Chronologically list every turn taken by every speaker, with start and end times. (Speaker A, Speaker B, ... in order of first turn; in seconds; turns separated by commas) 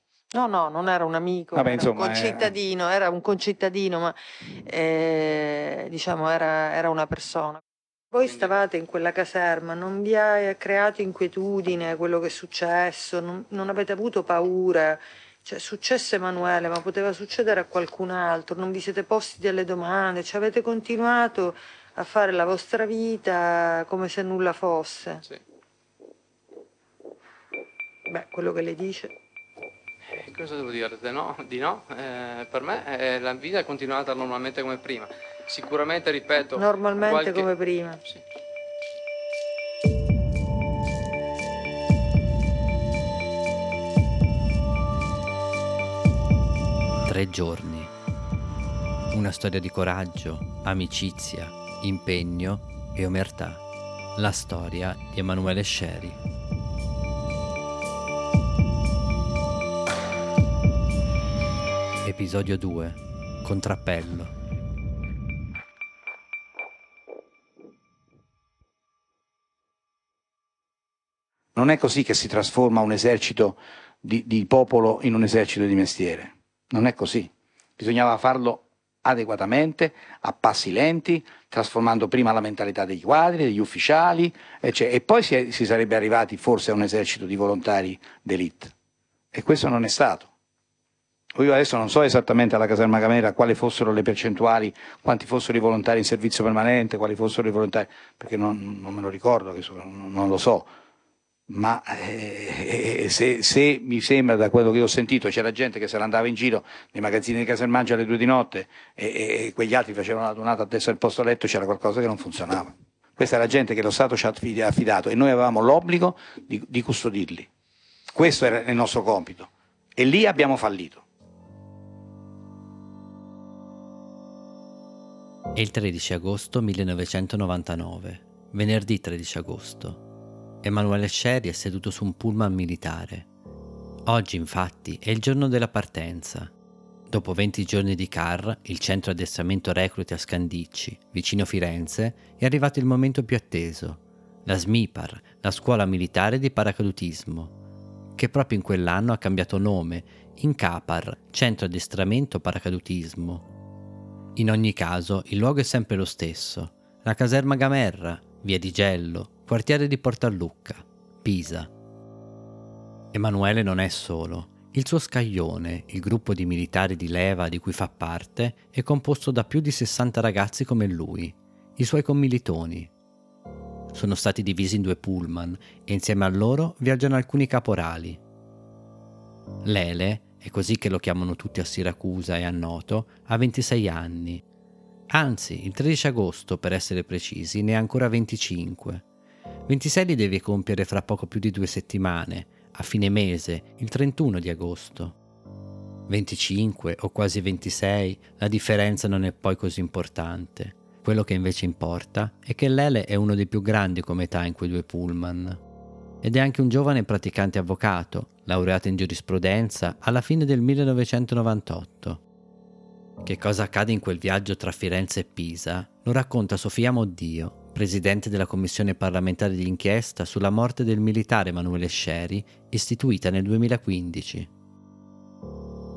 Speaker A: 0.3-25.2, Speaker B: 1.5-2.5, Speaker C: 8.2-8.7, Speaker A: 28.1-29.1, Speaker C: 30.1-37.5, Speaker A: 36.5-38.0, Speaker D: 47.1-47.9, Speaker D: 49.1-53.6, Speaker D: 54.2-56.2, Speaker D: 62.0-64.3, Speaker B: 71.6-88.7, Speaker B: 89.3-90.3, Speaker B: 91.3-100.7, Speaker B: 101.5-117.5, Speaker B: 118.1-121.0, Speaker D: 125.5-130.0, Speaker D: 130.6-133.3, Speaker D: 134.1-136.5, Speaker D: 137.1-147.5, Speaker D: 148.2-153.4, Speaker D: 154.4-161.7, Speaker D: 163.1-172.9, Speaker D: 173.9-178.2, Speaker D: 179.7-184.4, Speaker D: 185.1-189.0, Speaker D: 189.7-195.2, Speaker D: 196.1-205.6, Speaker D: 206.2-212.2, Speaker D: 213.2-224.5